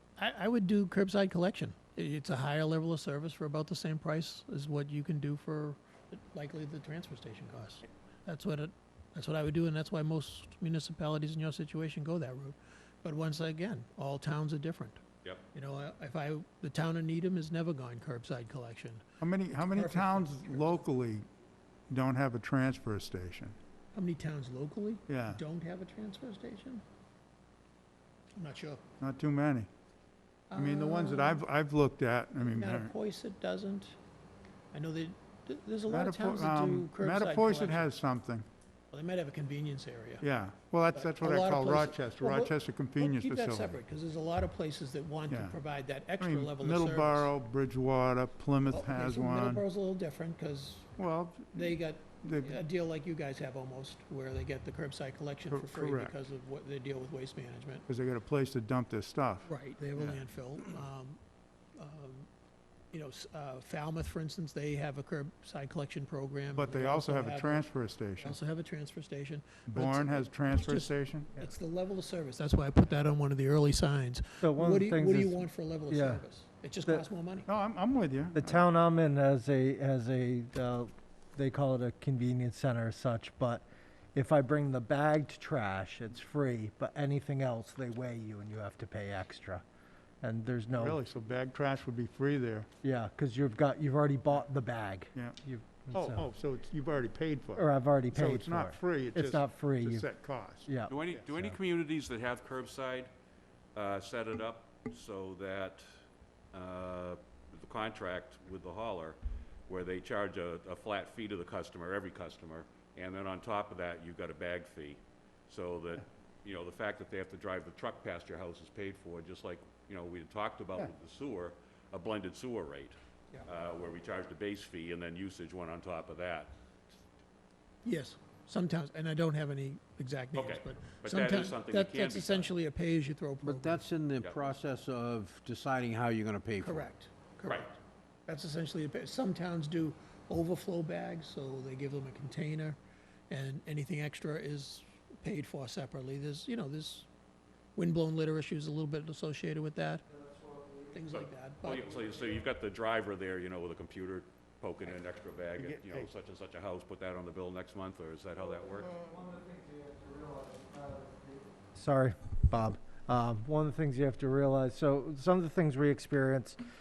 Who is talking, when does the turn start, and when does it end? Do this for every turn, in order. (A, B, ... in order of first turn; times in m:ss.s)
0:00.2-0:15.0 A
0:15.5-0:19.0 A
0:19.2-0:21.2 B
0:19.6-0:20.8 A
0:21.9-0:23.6 B
0:23.9-0:26.8 A
0:25.1-0:25.4 B
0:28.4-0:28.8 A
0:29.0-0:29.7 B
0:30.5-0:31.4 A
0:30.5-0:32.9 B
0:32.4-0:33.9 A
0:34.7-0:37.9 A
0:35.9-0:38.4 B
0:38.9-0:40.2 A
0:40.2-0:43.7 B
0:40.9-0:47.3 A
0:45.3-0:45.5 B
0:46.2-0:49.6 B
0:48.7-0:51.0 A
0:51.0-0:52.6 B
0:51.5-0:57.9 A
0:55.5-0:56.2 B
0:57.9-1:00.2 B
0:59.4-1:01.2 A
1:01.8-1:02.3 A
1:02.9-1:07.7 A
1:06.6-1:08.4 B
1:08.2-1:17.5 A
1:09.7-1:11.4 B
1:14.4-1:16.2 C
1:17.5-1:18.6 B
1:18.4-1:29.6 C
1:30.2-1:31.0 C
1:30.8-1:32.7 B
1:32.8-1:36.2 C
1:35.9-1:41.2 B
1:37.5-1:40.1 C
1:40.7-1:41.6 C
1:40.9-1:43.1 D
1:43.7-1:45.9 D
1:46.5-2:06.5 D
2:07.8-2:13.8 A
2:10.3-2:12.5 D
2:13.4-2:16.9 E
2:16.6-2:22.8 A
2:17.4-2:17.7 D
2:23.3-2:27.1 A
2:27.7-2:30.0 A
2:30.1-2:31.0 C
2:30.9-2:32.1 A
2:31.1-2:38.9 D
2:35.6-2:36.1 B
2:38.8-2:46.6 C